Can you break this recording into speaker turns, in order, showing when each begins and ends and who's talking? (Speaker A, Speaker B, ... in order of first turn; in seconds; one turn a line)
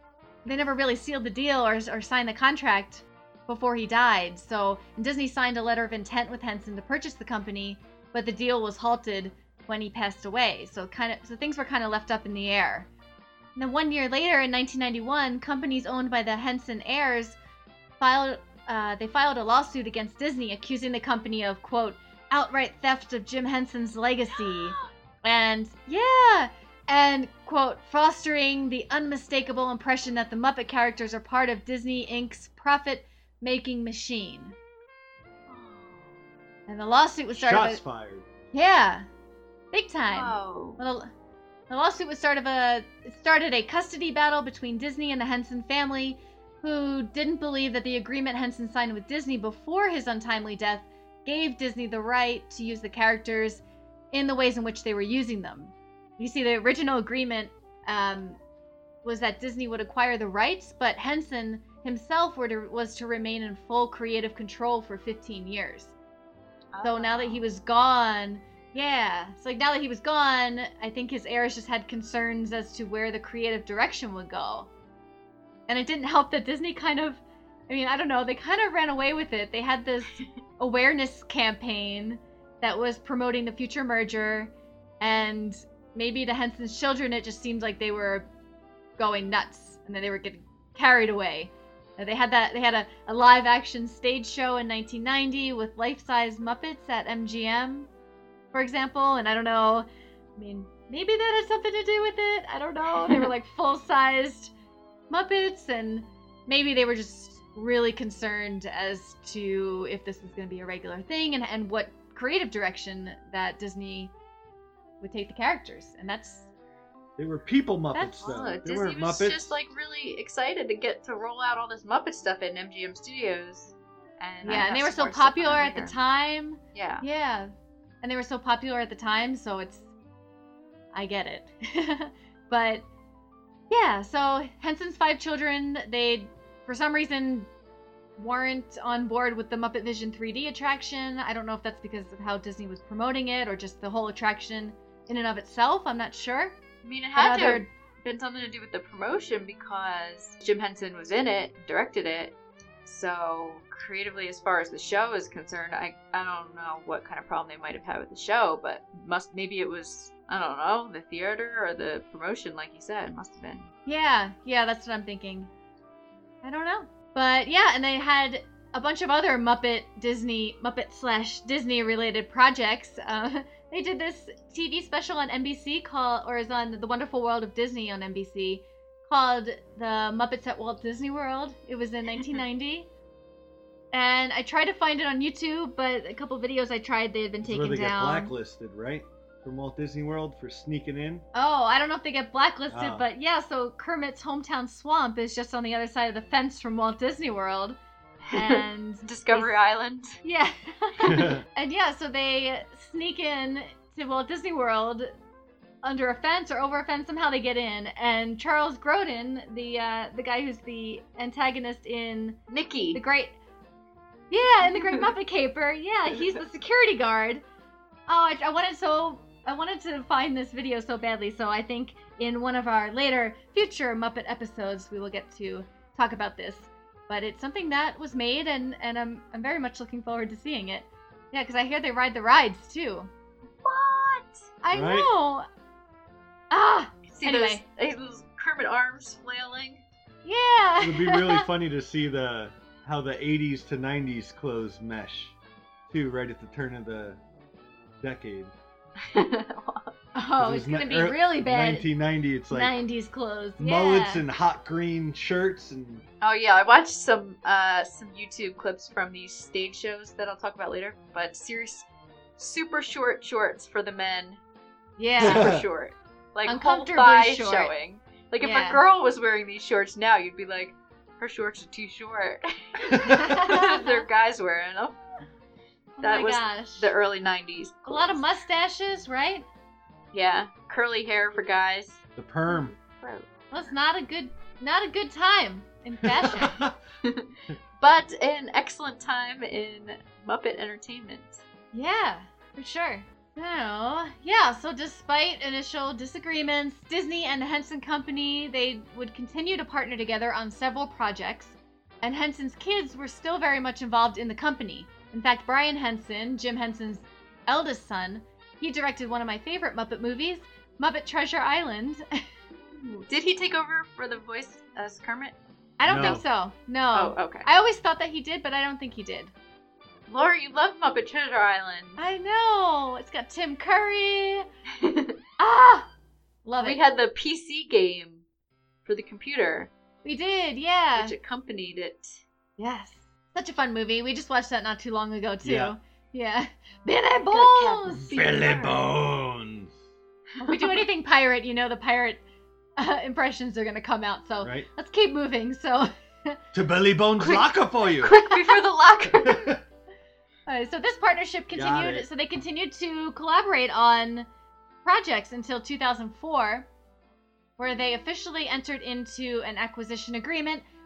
Speaker A: 0.5-12.9
Speaker A: 13.6-17.4
Speaker A: 18.0-34.6
Speaker B: 24.3-24.9
Speaker B: 35.5-36.1
Speaker A: 36.7-37.8
Speaker C: 37.4-38.3
Speaker A: 38.5-39.1
Speaker A: 39.7-41.1
Speaker B: 40.1-40.8
Speaker A: 41.7-58.4
Speaker A: 59.0-65.9
Speaker B: 66.7-67.4
Speaker A: 66.8-74.7
Speaker A: 75.7-88.3
Speaker A: 89.0-97.9
Speaker A: 98.5-104.5
Speaker B: 103.0-103.3
Speaker A: 105.1-114.1
Speaker A: 115.0-116.5
Speaker C: 117.2-119.6
Speaker A: 117.9-118.3
Speaker B: 118.2-126.0
Speaker A: 124.4-129.9
Speaker B: 126.8-127.0
Speaker A: 130.9-132.8
Speaker A: 133.7-137.5
Speaker A: 138.2-146.6
Speaker B: 146.8-163.7
Speaker A: 147.2-147.7
Speaker A: 163.9-165.5
Speaker A: 166.4-182.9
Speaker A: 183.9-188.3
Speaker C: 187.4-191.2
Speaker A: 191.3-197.8
Speaker C: 192.7-193.1
Speaker B: 198.2-200.2
Speaker A: 198.3-199.6
Speaker A: 200.2-205.1
Speaker C: 201.0-201.4
Speaker A: 205.8-212.4
Speaker B: 212.5-213.0
Speaker A: 212.9-213.4
Speaker A: 214.3-217.4
Speaker B: 214.7-215.0
Speaker A: 218.1-233.1
Speaker B: 233.6-234.4
Speaker A: 234.6-235.5
Speaker C: 234.7-235.1
Speaker A: 236.5-237.6
Speaker B: 237.1-239.8
Speaker A: 240.2-241.5
Speaker C: 240.8-245.3
Speaker C: 245.9-247.2
Speaker C: 248.0-248.5
Speaker B: 249.0-249.9
Speaker A: 250.2-251.9
Speaker C: 250.4-252.8
Speaker A: 252.5-254.2
Speaker C: 253.6-256.1
Speaker B: 256.2-261.9
Speaker B: 262.4-264.4
Speaker A: 265.0-265.5
Speaker B: 265.2-275.0
Speaker C: 265.2-265.6
Speaker A: 266.5-267.7
Speaker A: 268.4-268.8
Speaker C: 272.9-273.3
Speaker A: 272.9-274.1
Speaker A: 276.0-276.9
Speaker B: 276.0-278.2
Speaker A: 277.9-279.5
Speaker B: 280.1-283.3
Speaker C: 282.2-282.7
Speaker A: 283.5-286.6
Speaker C: 286.0-286.8
Speaker B: 287.0-291.4
Speaker A: 291.7-312.1
Speaker B: 312.8-315.4
Speaker A: 315.8-319.3
Speaker C: 315.9-316.2
Speaker B: 316.9-317.5
Speaker B: 320.1-322.0
Speaker A: 322.0-324.5
Speaker B: 324.8-325.2
Speaker A: 325.4-325.9
Speaker A: 326.4-326.8
Speaker B: 326.6-328.2
Speaker B: 328.9-329.7
Speaker A: 330.0-331.1
Speaker B: 330.9-332.2
Speaker A: 332.6-338.2
Speaker C: 335.4-335.8
Speaker B: 337.3-338.9
Speaker C: 338.0-339.8
Speaker B: 340.4-340.9
Speaker A: 340.4-342.2
Speaker A: 342.8-346.4
Speaker C: 344.4-344.7
Speaker C: 346.5-348.1
Speaker B: 348.0-349.5
Speaker C: 349.1-349.6
Speaker A: 350.5-354.3
Speaker C: 351.5-352.1
Speaker A: 354.9-356.7
Speaker A: 357.6-360.6